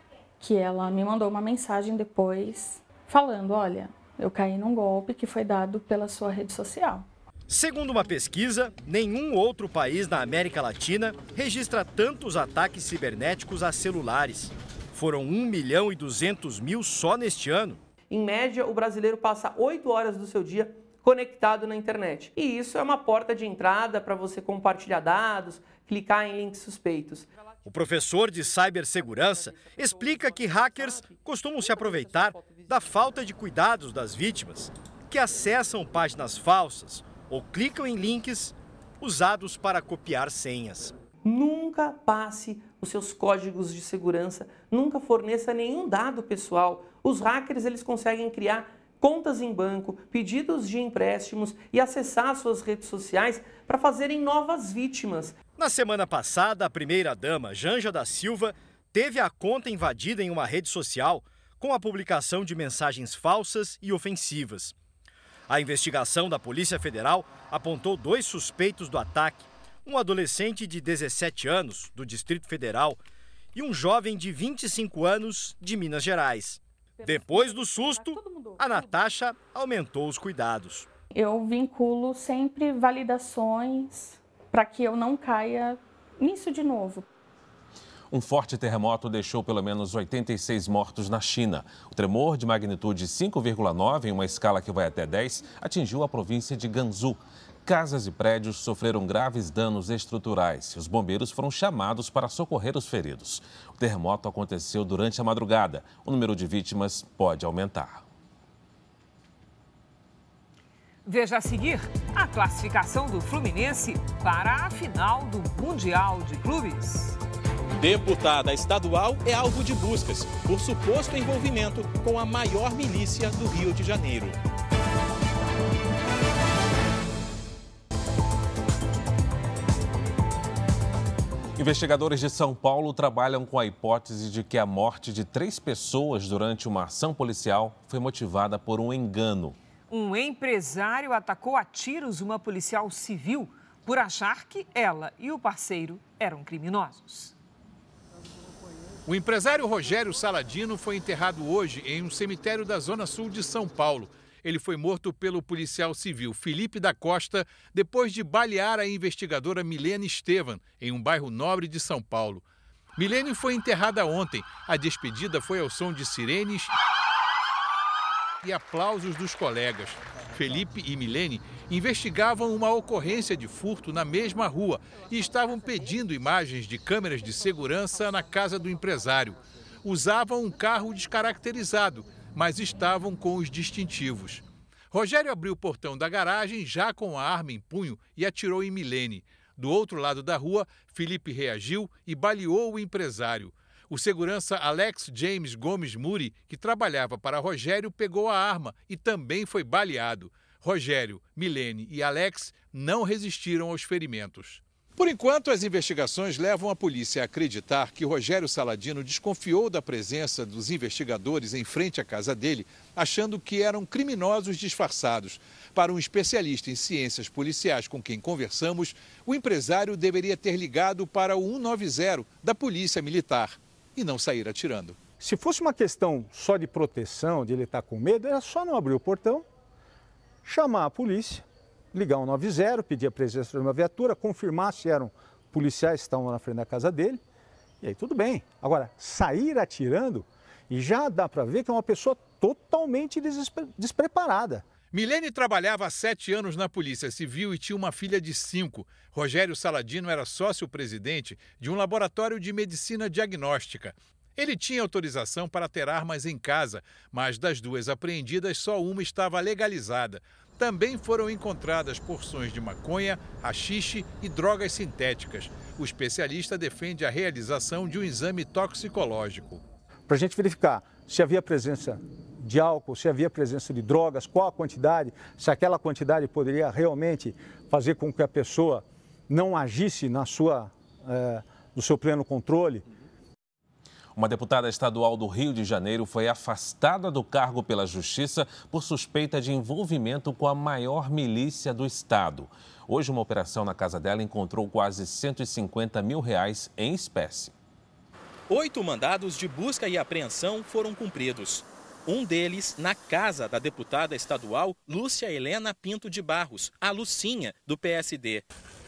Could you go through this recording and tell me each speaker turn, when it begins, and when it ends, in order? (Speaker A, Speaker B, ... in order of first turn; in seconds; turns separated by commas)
Speaker A: 0.4-7.1, Speaker B: 7.5-17.8, Speaker C: 18.2-26.0, Speaker B: 27.6-40.9, Speaker C: 41.8-42.2, Speaker C: 43.5-44.0, Speaker B: 55.5-64.7, Speaker B: 65.5-73.0, Speaker B: 73.5-80.9, Speaker A: 77.0-79.0, Speaker A: 81.1-87.0, Speaker D: 88.1-108.0, Speaker E: 111.0-117.2, Speaker F: 117.8-124.4, Speaker D: 131.6-139.6, Speaker E: 139.9-147.3, Speaker G: 149.1-162.4, Speaker G: 162.9-166.7, Speaker G: 168.4-225.0, Speaker H: 225.2-229.4, Speaker H: 230.4-237.2, Speaker H: 237.8-244.6, Speaker G: 244.9-269.6, Speaker H: 270.1-282.8, Speaker D: 284.1-297.5, Speaker F: 298.5-308.5